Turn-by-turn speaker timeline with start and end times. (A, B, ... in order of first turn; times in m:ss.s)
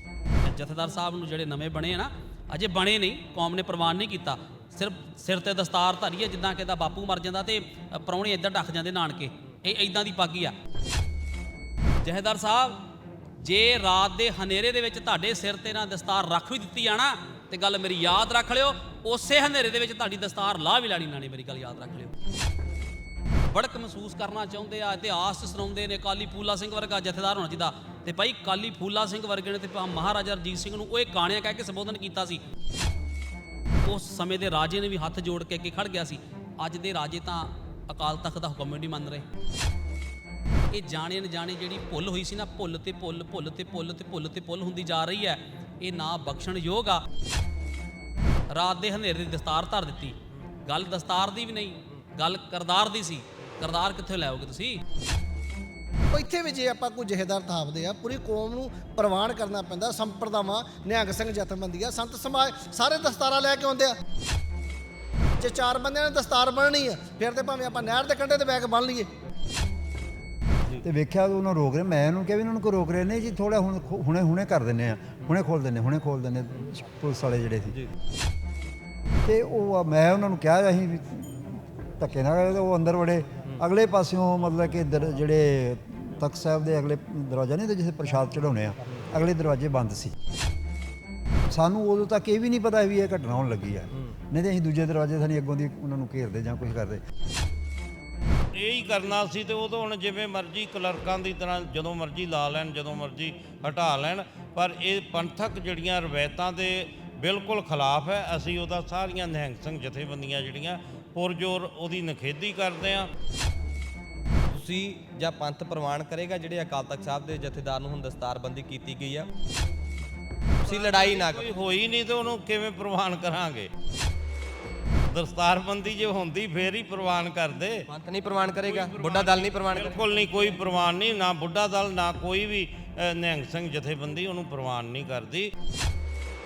0:00.4-0:10.5 A
0:12.0-0:12.8 A
0:13.4-0:22.1 A
0:23.5-0:32.4 A
0:33.8-0:39.2 A
0:40.7-0:47.0 A
0:48.5-0:54.8 A
0:56.1-1:04.0 B
1:05.4-1:09.1 B
1:10.8-1:17.8 C
1:19.2-1:30.1 C
1:31.5-1:37.0 C
1:38.5-1:53.1 D
1:54.5-1:59.3 E
2:00.6-2:01.4 E
2:00.6-2:03.7 D
2:05.1-2:07.9 D
2:07.9-2:10.5 E
2:08.6-2:15.5 D